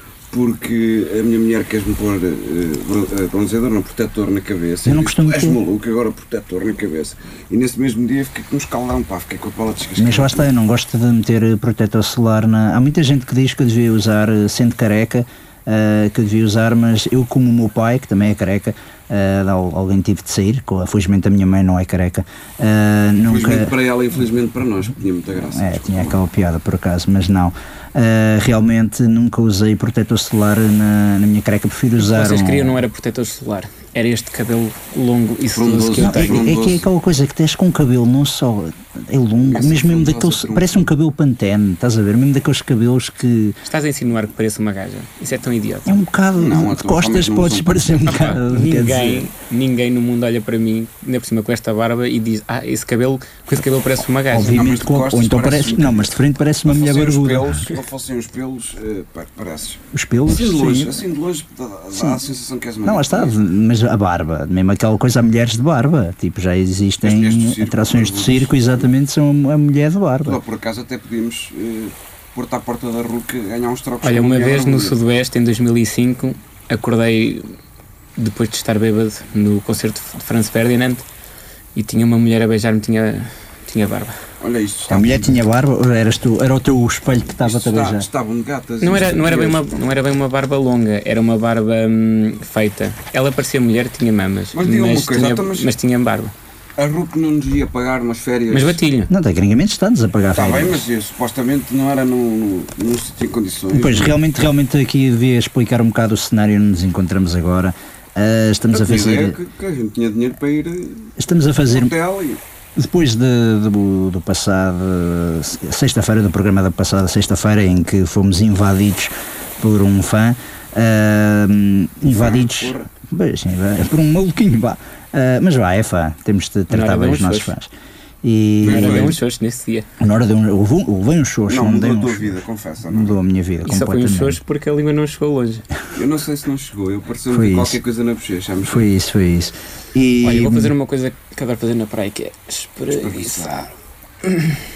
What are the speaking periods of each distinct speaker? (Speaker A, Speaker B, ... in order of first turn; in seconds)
Speaker A: 0.3-10.5, 23.3-26.2, 35.5-36.8, 39.4-40.9, 46.3-48.3, 54.4-63.3, 67.0-68.8, 70.2-74.9, 84.4-85.4, 87.4-89.7, 94.5-95.7, 96.8-98.8, 100.3-104.1, 108.7-111.1, 111.7-112.4, 122.1-122.9, 128.6-129.2, 131.5-133.2, 135.9-138.8, 142.9-143.6
Speaker B: 4.8-5.6, 10.0-23.7, 25.4-32.8, 36.0-43.5, 45.9-49.3, 54.3-57.8, 59.9-61.0, 61.9-62.2, 62.8-70.4, 84.9-88.1, 99.1-100.8, 103.7-109.4, 111.2-111.9, 112.8-127.7, 128.2-129.2, 130.0-134.4, 137.3-137.8, 138.6-140.7
Speaker C: 32.0-36.4, 43.6-46.0, 48.5-54.6, 74.0-77.5, 78.2-81.0, 81.7-84.2, 88.8-96.3, 98.5-99.1, 126.7-127.5, 128.6-129.9, 133.6-135.6, 140.2-143.7, 144.2-144.6